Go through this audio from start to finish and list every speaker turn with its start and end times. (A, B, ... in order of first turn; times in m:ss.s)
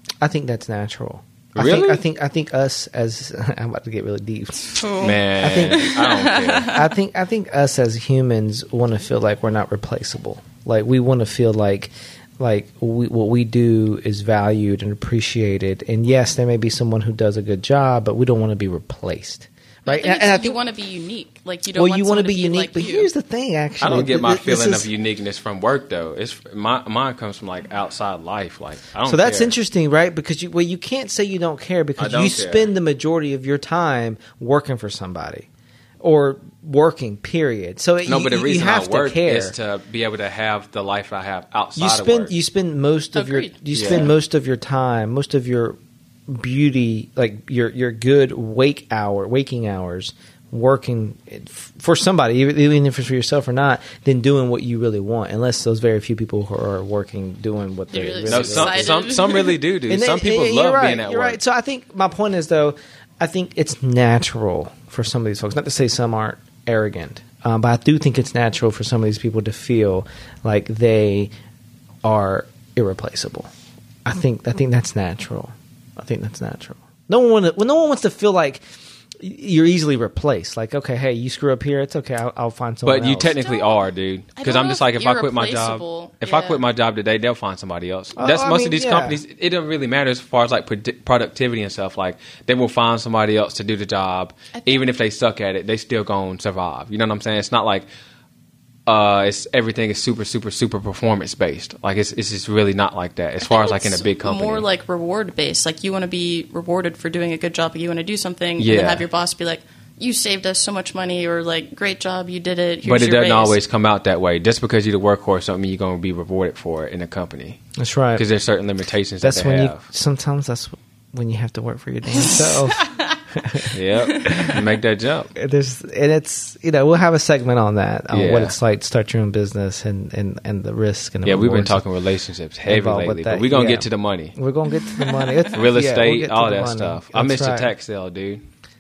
0:00.2-0:04.8 A
0:01.6-0:02.0 B
0:04.7-0:06.8 C
0:05.0-0:06.8 B
0:05.4-0:05.9 A
0:06.7-0:20.6 A
0:19.9-0:23.1 C
0:21.7-0:24.9 A
0:23.8-0:29.5 B
0:29.0-0:35.5 A
0:32.0-0:32.7 B
0:36.0-0:39.5 A
0:38.0-0:42.3 B
0:41.8-0:59.0 A
0:43.2-0:44.1 C
0:43.7-0:44.1 B
0:57.9-0:59.6 C
0:58.3-1:01.4 B
0:59.9-1:11.3 A
1:12.0-1:13.5 A
1:14.0-1:18.6 A
1:19.2-1:23.4 A
1:22.8-1:37.9 B
1:23.4-1:23.8 C
1:24.4-1:26.6 C
1:28.2-1:29.2 A
1:34.5-1:34.8 C
1:38.9-1:44.6 B
1:43.4-1:53.6 C
1:48.6-1:49.0 B
1:52.8-1:57.6 B
1:57.8-1:58.2 A
1:58.2-1:59.8 B
1:59.2-2:02.8 A
2:02.2-2:03.2 C
2:03.4-2:03.7 A
2:03.6-2:05.3 B
2:04.0-2:04.6 C
2:05.4-2:11.8 A
2:08.1-2:08.6 B
2:11.2-2:14.4 B
2:12.7-2:17.7 A
2:14.9-2:15.4 C
2:15.5-2:18.4 B